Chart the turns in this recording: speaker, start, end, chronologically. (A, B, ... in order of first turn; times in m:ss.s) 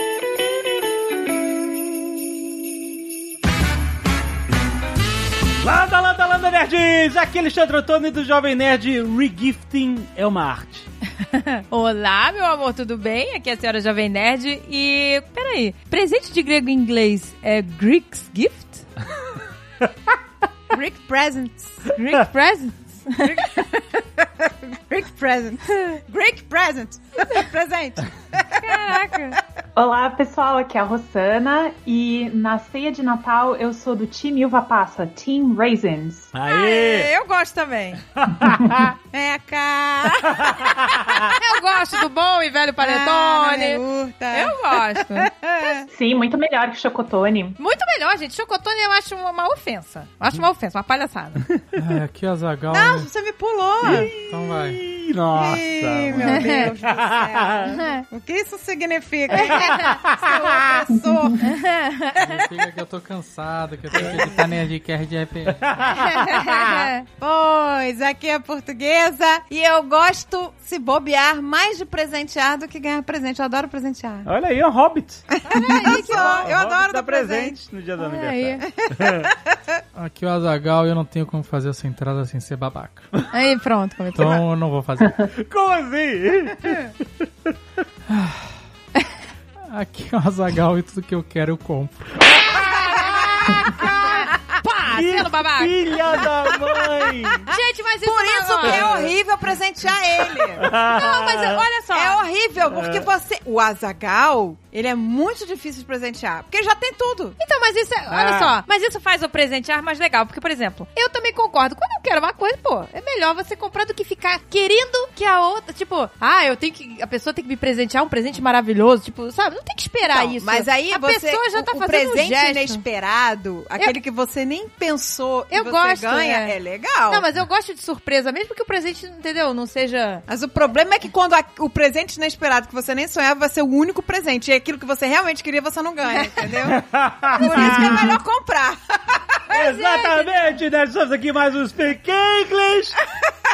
0:05.6-0:10.9 A
0:11.2-0:18.9 B
0:20.7-0:21.9 C
0:21.9-0:23.5 B
0:23.2-0:28.6 C
0:28.5-0:29.4 B
0:29.8-0:36.3 D
0:36.3-0:37.1 A
0:36.5-0:38.0 B
0:38.2-0:38.9 A
0:39.1-0:40.8 C
0:40.3-0:41.4 A
0:41.4-0:45.3 B
0:42.8-0:45.9 C
0:45.9-0:47.6 D
0:47.6-0:51.4 B
0:51.8-0:53.1 E
0:52.7-0:54.3 C
0:53.8-0:57.8 A
0:53.9-0:54.8 E
0:55.3-1:01.5 C
0:56.3-0:56.6 B
0:57.7-0:58.0 B
0:59.3-1:00.0 B
0:59.4-1:00.8 A
1:01.0-1:01.4 D
1:01.4-1:02.2 B
1:02.2-1:05.9 E
1:03.9-1:04.3 A
1:05.5-1:06.9 A
1:05.9-1:07.0 B
1:07.1-1:14.3 C
1:14.2-1:19.3 A
1:15.4-1:17.6 C
1:15.5-1:16.5 B
1:18.0-1:18.6 B
1:18.6-1:19.6 C
1:20.0-1:23.1 E
1:23.3-1:24.4 B
1:24.2-1:25.3 E
1:25.4-1:26.8 A
1:28.1-1:28.5 E
1:29.7-1:32.2 E
1:32.4-1:34.1 A
1:33.0-1:36.2 B
1:34.9-1:37.5 A
1:37.5-1:39.0 B
1:38.0-1:40.6 C
1:38.6-1:39.1 A
1:40.4-1:41.7 A
1:40.7-1:42.2 B
1:41.9-1:47.4 C
1:42.7-1:43.1 A
1:47.4-2:02.8 B
1:48.1-1:48.6 A
2:00.1-2:07.3 C
2:05.5-2:06.6 B
2:07.1-2:10.2 B
2:10.3-2:19.4 C
2:16.6-2:18.2 A
2:17.5-2:17.9 B
2:19.5-2:20.6 B
2:19.5-2:23.0 A